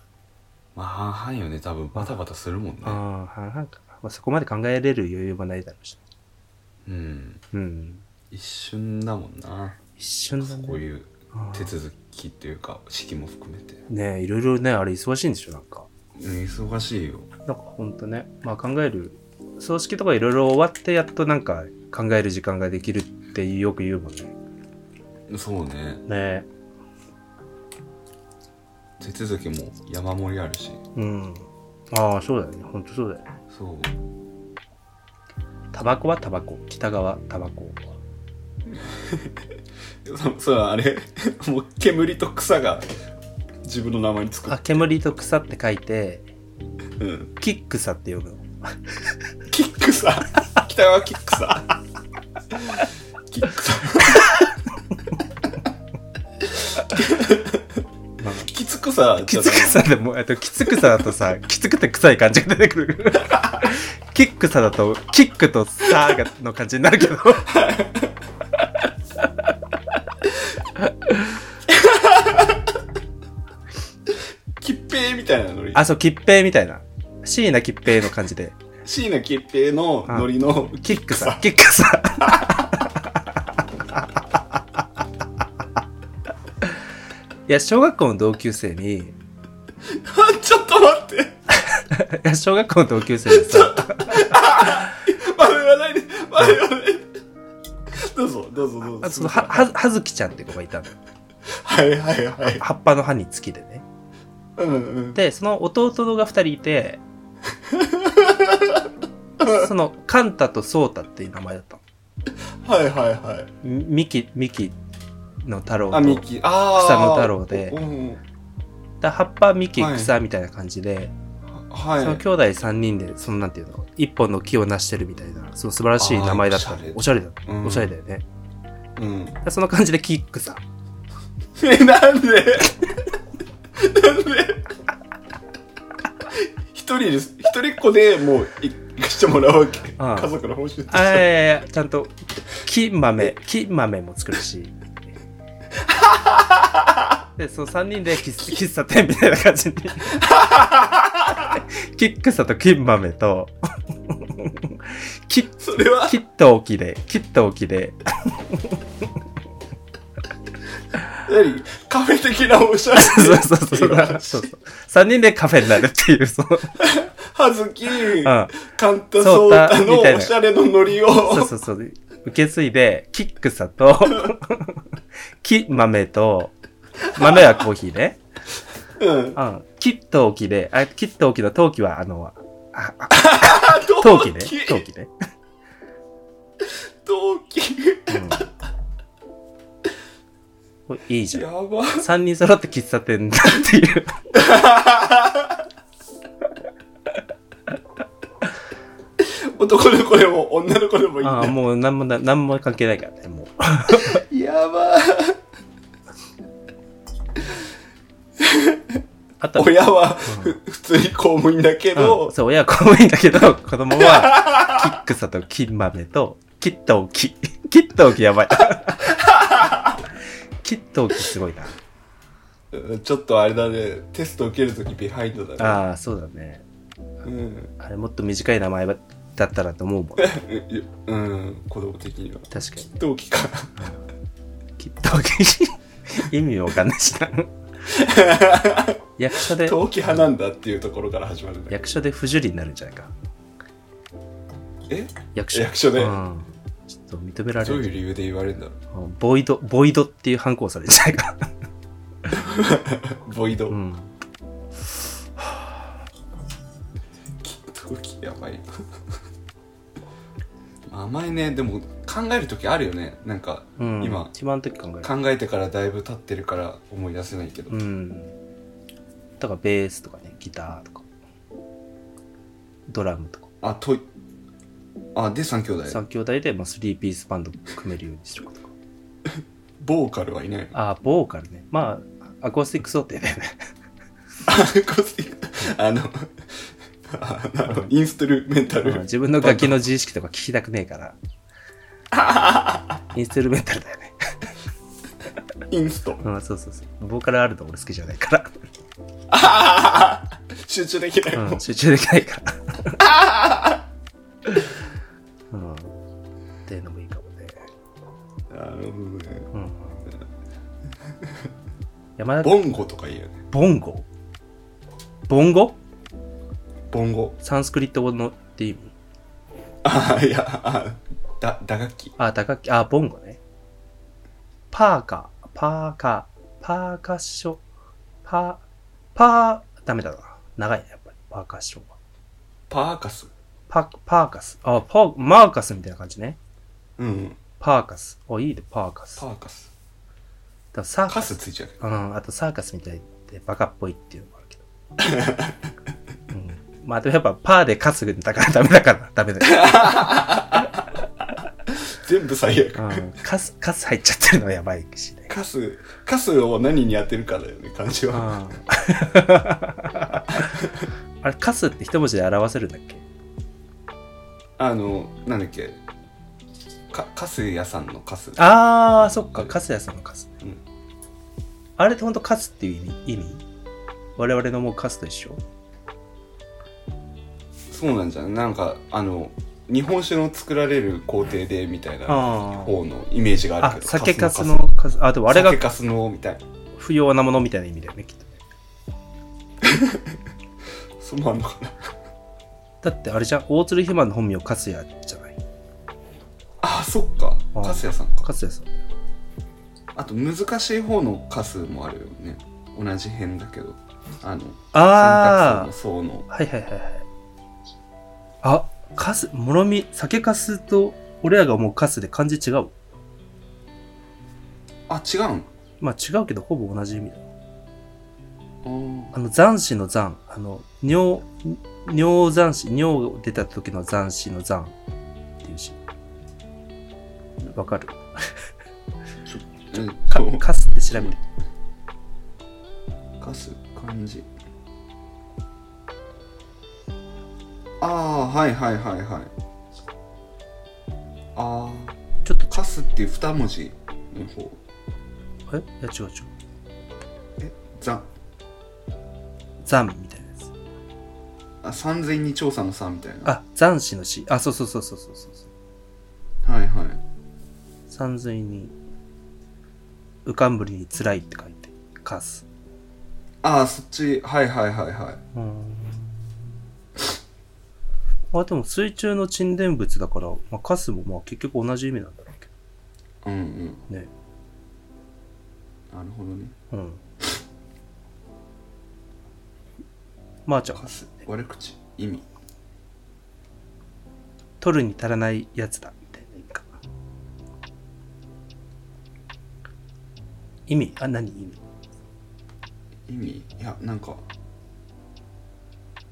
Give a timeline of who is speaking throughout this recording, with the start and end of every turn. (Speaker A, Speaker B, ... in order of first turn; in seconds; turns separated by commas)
Speaker A: 0.7-3.0, Speaker B: 2.8-6.0, Speaker A: 6.8-7.4, Speaker B: 7.5-8.0, Speaker A: 8.3-9.8, Speaker B: 10.0-10.8, Speaker A: 10.4-13.8, Speaker B: 11.3-11.7, Speaker B: 13.9-15.9, Speaker A: 16.1-17.3, Speaker B: 17.4-24.3, Speaker A: 25.3-26.0, Speaker B: 26.1-26.4, Speaker A: 29.0-30.8, Speaker B: 30.9-33.2, Speaker A: 33.5-33.9, Speaker B: 35.7-37.9, Speaker A: 38.7-39.4, Speaker A: 40.0-42.9, Speaker A: 43.6-44.8, Speaker B: 44.5-46.3, Speaker A: 47.0-47.3, Speaker B: 47.4-48.9, Speaker A: 49.5-51.8, Speaker A: 52.5-54.4, Speaker B: 54.1-54.4, Speaker A: 56.6-57.8, Speaker B: 58.2-58.5, Speaker A: 58.4-59.9, Speaker B: 59.3-67.5, Speaker A: 67.5-68.1, Speaker A: 71.7-72.7, Speaker A: 74.6-75.9, Speaker B: 75.7-78.6, Speaker A: 78.8-81.4, Speaker B: 80.8-82.9, Speaker A: 82.2-82.6, Speaker B: 87.5-89.2, Speaker A: 89.9-91.4, Speaker B: 91.6-94.7, Speaker A: 93.3-97.2, Speaker A: 97.9-99.7, Speaker B: 99.0-100.9, Speaker A: 101.5-102.6, Speaker B: 102.6-103.8, Speaker A: 104.6-105.2, Speaker B: 105.1-107.0, Speaker A: 107.7-108.9, Speaker B: 109.4-111.8, Speaker A: 112.4-113.5, Speaker B: 113.6-114.8, Speaker B: 115.4-117.8, Speaker A: 115.9-118.2, Speaker B: 119.0-121.1, Speaker A: 119.8-120.1, Speaker A: 121.5-122.2, Speaker B: 122.0-128.2, Speaker A: 126.0-127.9, Speaker A: 128.9-129.4, Speaker B: 129.4-130.6, Speaker A: 131.6-133.0, Speaker A: 133.8-134.7, Speaker A: 136.3-141.3, Speaker B: 140.0-140.3, Speaker B: 140.9-144.7, Speaker A: 145.8-147.1, Speaker B: 147.3-150.2, Speaker A: 150.1-151.5, Speaker B: 151.4-153.5, Speaker B: 154.1-158.8, Speaker A: 155.6-156.2, Speaker A: 161.2-164.5, Speaker B: 162.9-166.8, Speaker A: 166.8-171.5, Speaker B: 168.2-168.6, Speaker B: 169.2-170.3, Speaker B: 171.1-174.8, Speaker B: 175.4-176.5, Speaker B: 177.1-178.2, Speaker A: 177.2-177.5, Speaker A: 179.0-179.4, Speaker B: 179.3-185.1, Speaker A: 183.1-184.8, Speaker A: 186.6-188.4, Speaker B: 188.1-188.5, Speaker B: 190.9-194.3, Speaker A: 191.3-192.1, Speaker A: 194.3-195.6, Speaker A: 199.2-201.6, Speaker B: 201.2-204.2, Speaker A: 203.9-205.4, Speaker A: 208.4-209.0, Speaker B: 209.4-209.7, Speaker A: 209.6-212.3, Speaker B: 210.2-210.6, Speaker B: 211.9-219.1, Speaker A: 214.0-214.8, Speaker A: 219.0-219.9, Speaker B: 220.6-221.8, Speaker A: 222.7-225.8, Speaker B: 225.6-226.6, Speaker A: 227.2-227.7, Speaker B: 227.8-230.4, Speaker A: 230.2-233.8, Speaker B: 232.5-233.0, Speaker B: 233.8-234.0, Speaker B: 234.8-237.5, Speaker A: 237.9-241.9, Speaker B: 239.2-239.8, Speaker B: 241.7-243.1, Speaker A: 244.9-246.2, Speaker B: 245.3-247.9, Speaker A: 247.6-248.8, Speaker B: 248.9-251.5, Speaker A: 252.3-253.8, Speaker B: 253.7-254.1, Speaker A: 257.4-259.2, Speaker A: 260.9-264.3, Speaker B: 263.8-265.1, Speaker A: 265.0-267.8, Speaker B: 267.7-268.3, Speaker B: 269.4-271.1, Speaker B: 272.9-273.5, Speaker A: 273.6-274.0, Speaker A: 275.1-276.0, Speaker B: 275.9-278.7, Speaker A: 279.8-280.7, Speaker B: 280.7-283.6, Speaker A: 284.4-286.4, Speaker A: 287.1-289.8, Speaker B: 288.8-291.2, Speaker A: 292.1-293.0, Speaker B: 293.1-294.2, Speaker A: 295.7-296.2, Speaker B: 296.2-298.5, Speaker A: 299.3-301.6, Speaker B: 301.3-303.0, Speaker A: 303.0-303.8, Speaker B: 305.5-305.9, Speaker B: 306.6-307.6, Speaker A: 308.5-309.5, Speaker B: 309.5-310.0, Speaker B: 312.2-312.8, Speaker A: 312.4-313.4, Speaker B: 313.5-314.1, Speaker B: 315.3-315.8, Speaker A: 316.9-317.4, Speaker B: 317.4-318.9, Speaker A: 319.8-322.1, Speaker B: 322.2-323.4, Speaker B: 324.7-327.6, Speaker B: 328.2-328.6, Speaker B: 329.1-331.9, Speaker A: 332.7-333.3, Speaker B: 333.7-336.4, Speaker A: 337.0-337.4, Speaker B: 337.6-339.2, Speaker A: 339.2-339.7, Speaker B: 340.7-344.6, Speaker A: 341.1-341.8, Speaker A: 345.0-345.6, Speaker B: 346.3-350.4, Speaker A: 349.4-350.9, Speaker A: 351.7-353.1, Speaker B: 352.8-355.3, Speaker A: 355.3-358.4, Speaker B: 358.1-360.5, Speaker A: 360.3-360.8, Speaker B: 361.2-363.0, Speaker A: 364.6-365.8, Speaker A: 366.9-369.5, Speaker B: 368.4-370.4, Speaker B: 371.8-373.4, Speaker B: 374.2-375.4, Speaker A: 377.7-384.7, Speaker B: 382.1-382.7, Speaker B: 383.6-385.6, Speaker A: 385.3-386.4, Speaker B: 386.8-388.4, Speaker A: 389.6-390.2, Speaker A: 391.0-391.9, Speaker B: 392.8-395.4, Speaker A: 396.6-398.3, Speaker B: 397.5-398.8, Speaker A: 399.9-406.3, Speaker B: 404.7-405.7, Speaker B: 406.3-407.0, Speaker B: 408.4-412.7, Speaker A: 414.9-415.5, Speaker B: 415.8-417.3, Speaker A: 418.6-419.1, Speaker B: 419.1-424.7, Speaker B: 425.4-425.8, Speaker B: 427.5-428.4, Speaker A: 429.2-431.1, Speaker B: 430.1-431.2, Speaker A: 433.2-434.3, Speaker A: 437.8-439.3, Speaker A: 441.3-442.0, Speaker B: 442.2-442.6, Speaker A: 442.5-444.6, Speaker B: 445.5-446.3, Speaker A: 447.4-448.1, Speaker B: 449.6-450.5, Speaker A: 451.6-453.3, Speaker B: 453.2-455.5, Speaker A: 456.4-457.0, Speaker B: 457.9-458.7, Speaker B: 460.2-462.4, Speaker A: 463.4-465.2, Speaker B: 465.3-466.2, Speaker B: 468.3-472.5, Speaker A: 473.2-473.8, Speaker A: 475.9-476.6, Speaker B: 476.7-477.0, Speaker B: 480.4-480.9, Speaker A: 480.7-482.2, Speaker B: 484.6-486.8, Speaker B: 490.7-491.6, Speaker A: 493.1-494.2